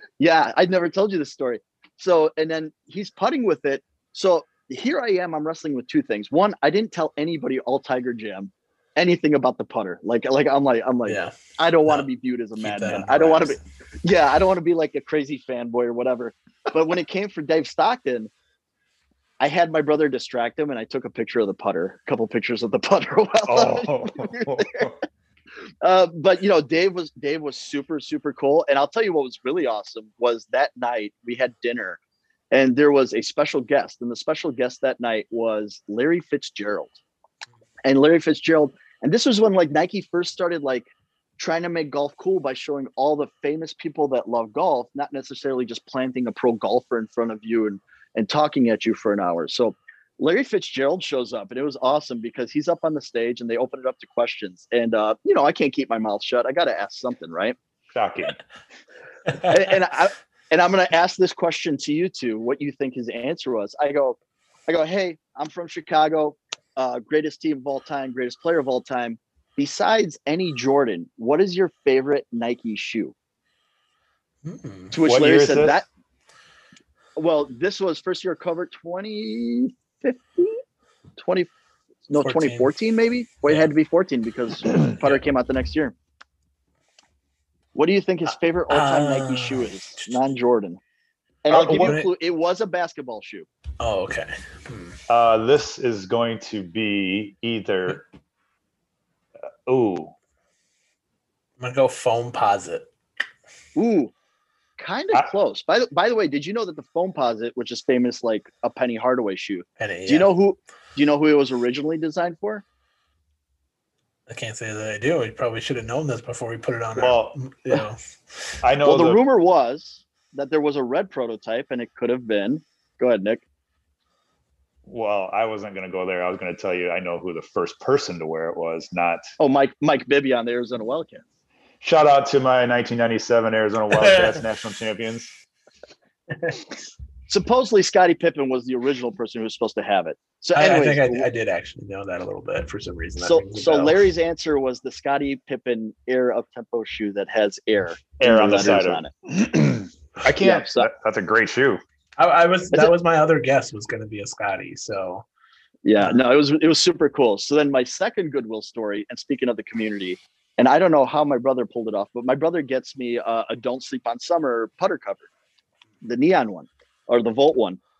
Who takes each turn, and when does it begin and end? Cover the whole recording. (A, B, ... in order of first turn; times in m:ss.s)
0:00.2-0:18.3 A
0:11.1-0:12.1 B
0:12.6-0:13.6 B
0:19.4-0:24.9 A
0:23.5-0:24.9 C
0:25.8-0:32.0 A
0:32.5-0:37.0 A
0:37.8-0:57.6 A
0:57.9-0:58.4 C
0:59.4-1:13.1 A
1:14.4-1:15.0 B
1:14.9-1:15.9 A
1:15.0-1:15.8 C
1:17.2-1:20.6 A
1:21.2-1:21.5 A
1:22.1-1:25.9 A
1:22.2-1:22.7 B
1:23.5-1:23.7 B
1:27.8-1:30.8 A
1:28.7-1:30.2 B
1:31.4-1:33.5 A
1:31.5-1:31.9 C
1:31.5-1:32.1 B
1:33.8-1:35.0 B
1:35.1-1:38.0 C
1:39.7-1:40.2 C
1:41.6-1:42.9 B
1:43.8-1:44.1 A
1:44.8-1:52.6 A
1:49.8-1:50.3 B
1:54.3-1:58.6 B
1:57.0-1:57.4 C
1:58.6-1:59.2 C
1:58.8-2:03.4 A
2:04.9-2:09.2 C
2:09.4-2:11.2 A
2:11.8-2:15.3 C
2:14.0-2:14.4 B
2:17.3-2:21.3 A
2:20.6-2:24.0 B
2:23.2-2:29.1 A
2:28.2-2:31.8 C
2:30.4-2:30.9 A
2:32.2-2:35.3 B
2:35.8-2:45.3 A
2:46.0-2:47.8 A